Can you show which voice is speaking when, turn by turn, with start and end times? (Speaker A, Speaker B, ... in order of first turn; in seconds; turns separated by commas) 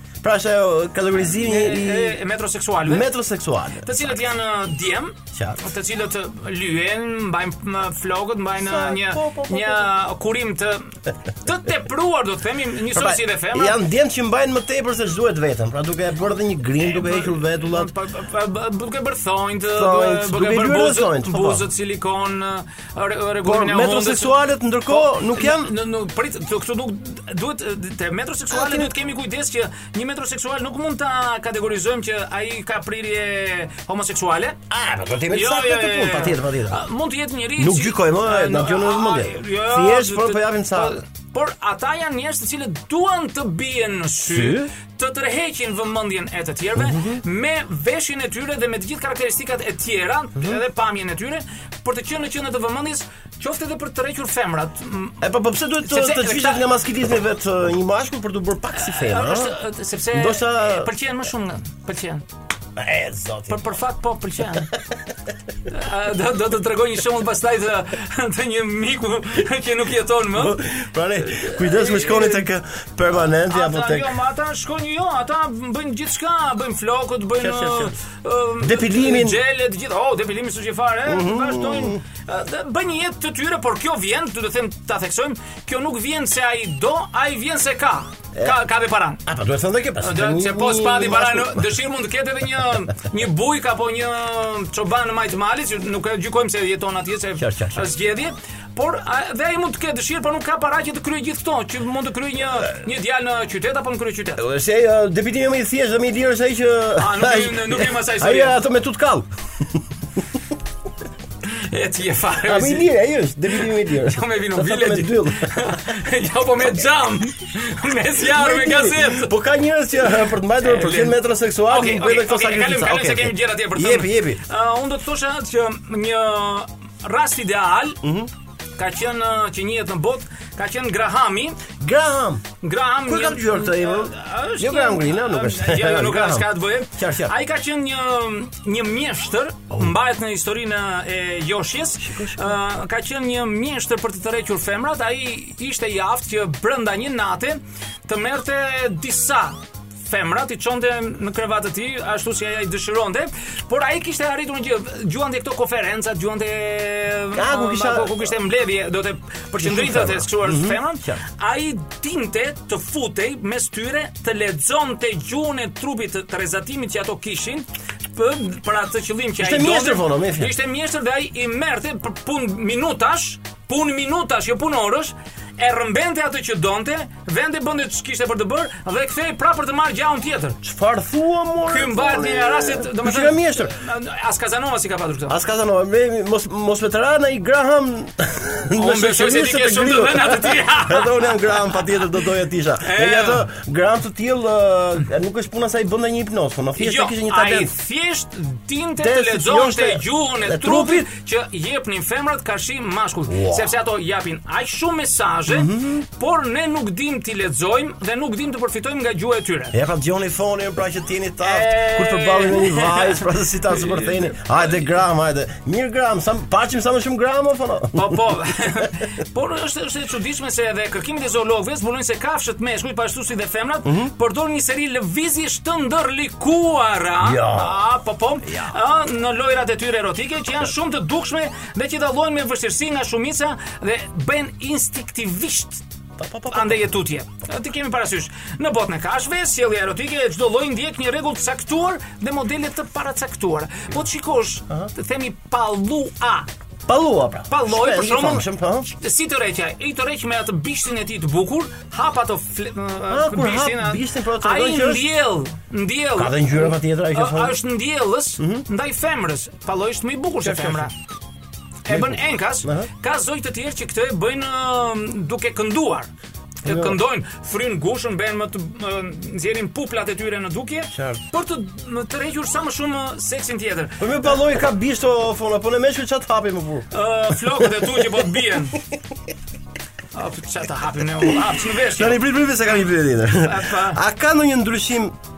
Speaker A: 0.2-2.2, Speaker B: 1.2-3.1, Speaker A: 2.8-4.1, Speaker B: 3.8-13.8, Speaker A: 5.3-5.6, Speaker A: 8.6-9.9, Speaker A: 12.9-17.9, Speaker B: 16.8-24.4, Speaker A: 19.7-21.7, Speaker A: 23.4-25.7, Speaker B: 24.9-34.6, Speaker A: 28.5-28.9, Speaker A: 34.7-36.8, Speaker B: 35.3-55.2, Speaker A: 37.6-41.0, Speaker A: 44.2-44.7, Speaker A: 46.8-47.2, Speaker A: 50.4-50.6, Speaker A: 55.2-59.5, Speaker B: 55.8-56.6, Speaker B: 58.7-62.2, Speaker A: 60.1-60.9, Speaker A: 62.8-63.7, Speaker B: 63.5-64.7, Speaker B: 65.7-70.7, Speaker A: 70.3-74.2, Speaker B: 71.2-72.5, Speaker B: 73.5-89.2, Speaker A: 77.4-78.0, Speaker A: 78.6-79.4, Speaker A: 81.0-82.0, Speaker A: 89.2-91.7, Speaker B: 90.0-104.4, Speaker A: 97.4-97.9, Speaker A: 104.4-109.8, Speaker B: 107.0-108.6, Speaker B: 111.5-112.9, Speaker A: 112.5-115.9, Speaker B: 113.6-119.3, Speaker A: 118.2-124.4, Speaker B: 120.6-128.0, Speaker A: 128.0-128.3, Speaker B: 128.8-131.6, Speaker A: 131.8-132.4, Speaker B: 132.6-180.6, Speaker A: 133.0-137.3, Speaker A: 142.0-142.6, Speaker A: 157.3-158.3, Speaker A: 159.5-161.2, Speaker A: 169.4-170.5, Speaker A: 180.6-183.8, Speaker B: 181.7-185.4, Speaker A: 185.3-197.7, Speaker B: 188.8-191.6, Speaker B: 192.8-193.4, Speaker B: 196.8-209.7, Speaker A: 199.0-201.1, Speaker A: 203.3-203.7, Speaker A: 205.5-206.0, Speaker A: 209.7-218.2, Speaker B: 211.4-214.4, Speaker B: 217.9-235.8, Speaker A: 223.8-224.1, Speaker A: 227.2-227.8, Speaker A: 228.4-228.8, Speaker A: 236.2-236.9, Speaker B: 236.5-246.5, Speaker A: 246.9-248.9, Speaker B: 247.5-260.9, Speaker A: 253.1-255.1, Speaker A: 256.1-257.6, Speaker A: 258.4-258.6, Speaker A: 260.4-260.9, Speaker B: 261.9-266.1, Speaker A: 261.9-262.9, Speaker B: 266.6-274.0, Speaker A: 266.6-267.0, Speaker A: 270.9-271.2, Speaker A: 274.0-278.3, Speaker B: 276.9-278.8, Speaker B: 280.1-282.2, Speaker A: 281.2-285.1, Speaker B: 283.4-284.0